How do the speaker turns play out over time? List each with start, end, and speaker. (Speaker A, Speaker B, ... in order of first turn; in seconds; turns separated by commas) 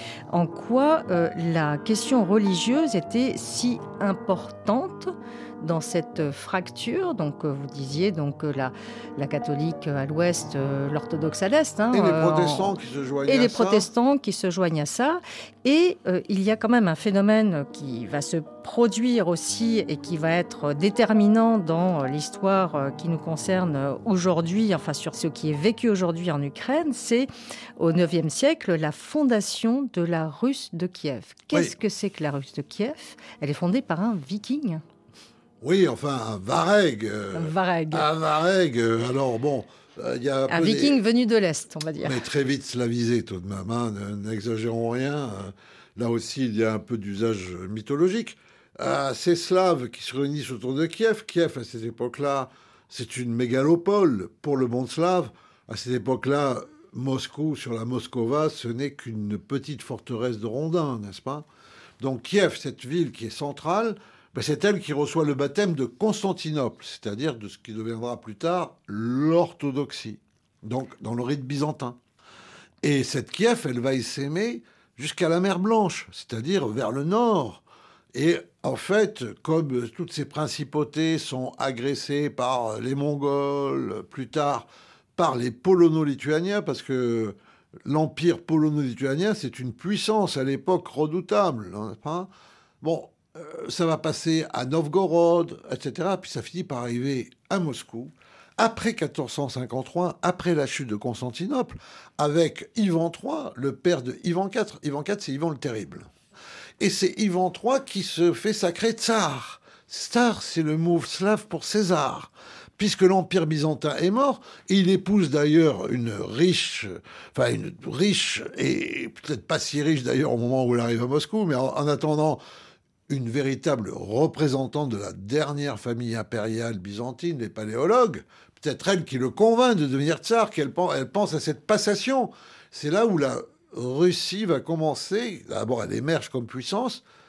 Speaker A: 0.3-12.7, Speaker B: 11.9-13.9, Speaker A: 13.3-34.8, Speaker B: 35.6-41.0, Speaker A: 37.3-38.1, Speaker A: 40.5-42.2, Speaker B: 42.0-61.5, Speaker B: 62.0-72.0, Speaker B: 72.8-77.6, Speaker B: 78.1-92.3, Speaker B: 92.8-106.1, Speaker B: 106.8-122.4, Speaker B: 123.1-137.0